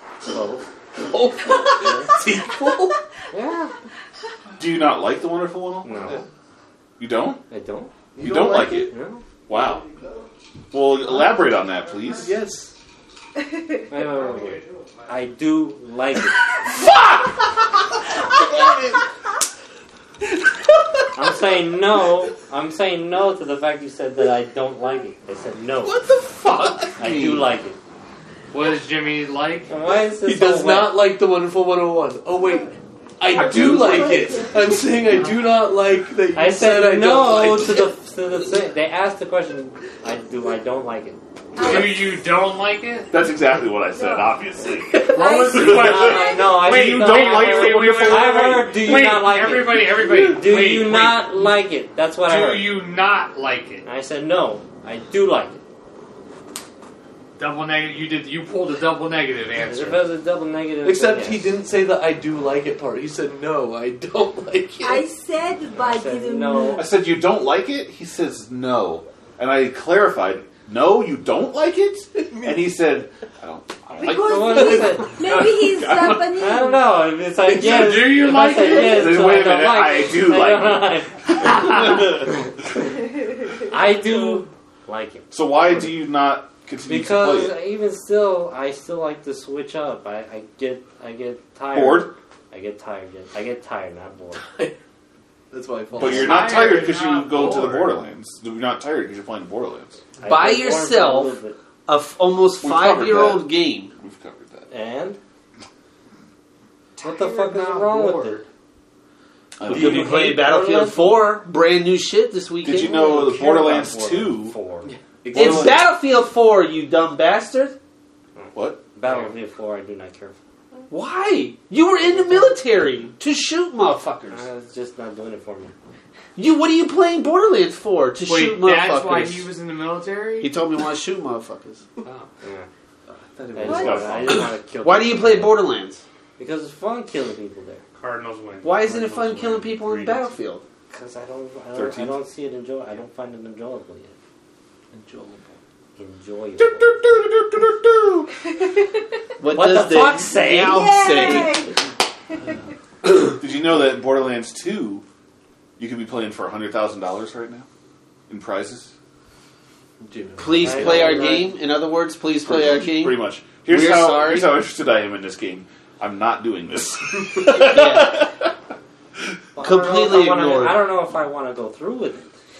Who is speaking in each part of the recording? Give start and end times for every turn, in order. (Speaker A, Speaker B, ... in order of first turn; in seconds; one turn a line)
Speaker A: 0.3-0.6
Speaker B: 1.0-3.0
Speaker A: 3.3-3.7
Speaker C: 4.6-6.2
Speaker A: 5.8-6.2
Speaker C: 7.0-7.4
Speaker A: 7.5-7.9
Speaker B: 8.1-8.9
Speaker C: 8.2-8.9
Speaker A: 8.9-9.2
Speaker C: 9.5-9.8
Speaker C: 10.7-12.3
Speaker B: 12.2-12.7
Speaker A: 13.9-16.4
Speaker D: 14.3-14.5
Speaker C: 16.7-17.4
Speaker C: 18.6-18.9
Speaker A: 21.1-26.0
Speaker B: 25.8-27.0
Speaker C: 26.4-27.5
Speaker A: 27.0-27.8
Speaker D: 28.5-29.7
Speaker A: 29.7-30.9
Speaker B: 30.1-37.9
Speaker E: 33.4-34.9
Speaker C: 33.6-34.1
Speaker A: 36.3-41.2
Speaker E: 41.5-42.2
Speaker D: 41.6-43.1
Speaker C: 43.1-48.7
Speaker E: 43.9-44.4
Speaker E: 44.9-46.4
Speaker D: 45.1-51.5
Speaker A: 45.6-52.7
Speaker D: 52.2-53.8
Speaker A: 53.8-55.6
Speaker D: 57.4-60.0
Speaker A: 59.6-61.5
Speaker B: 60.8-65.1
Speaker E: 64.8-66.8
Speaker A: 65.8-66.9
Speaker C: 66.7-76.3
Speaker B: 72.2-72.7
Speaker E: 73.9-76.8
Speaker A: 74.2-75.2
Speaker A: 76.3-82.5
Speaker B: 77.5-78.1
Speaker D: 77.5-79.4
Speaker C: 78.6-82.2
Speaker A: 83.6-85.3
Speaker C: 85.3-87.6
Speaker A: 86.8-94.4
Speaker C: 91.7-92.1
Speaker B: 94.3-94.7
Speaker B: 95.5-96.8
Speaker C: 96.0-100.0
Speaker D: 96.0-98.0
Speaker A: 100.2-101.6
Speaker F: 100.2-101.3
Speaker F: 101.9-103.9
Speaker C: 102.6-104.7
Speaker A: 104.7-105.2
Speaker D: 107.0-108.5
Speaker A: 107.0-108.4
Speaker C: 109.6-110.2
Speaker F: 109.6-113.9
Speaker A: 109.7-111.2
Speaker C: 112.6-114.5
Speaker A: 113.0-115.6
Speaker B: 114.8-115.7
Speaker F: 115.3-117.8
Speaker A: 118.3-120.4
Speaker C: 118.5-118.8
Speaker D: 119.0-119.3
Speaker F: 120.9-124.4
Speaker A: 124.3-125.7
Speaker F: 126.3-129.5
Speaker D: 128.2-130.5
Speaker F: 130.4-131.8
Speaker D: 132.0-132.3
Speaker A: 132.4-132.7
Speaker B: 133.1-134.5
Speaker A: 133.5-135.6
Speaker E: 133.7-134.0
Speaker C: 133.7-134.2
Speaker F: 134.8-136.0
Speaker A: 136.4-137.8
Speaker D: 138.0-140.3
Speaker F: 138.6-140.6
Speaker A: 140.9-144.1
Speaker C: 141.7-142.2
Speaker B: 144.9-145.6
Speaker A: 146.0-146.9
Speaker C: 146.6-148.3
Speaker F: 149.4-151.7
Speaker A: 149.5-151.4
Speaker E: 150.6-151.8
Speaker C: 153.0-155.0
Speaker C: 155.8-157.7
Speaker C: 158.3-158.9
Speaker B: 160.0-161.5
Speaker F: 160.4-164.6
Speaker A: 160.6-161.5
Speaker C: 162.4-168.5
Speaker F: 167.5-168.3
Speaker A: 169.6-172.3
Speaker F: 169.6-170.8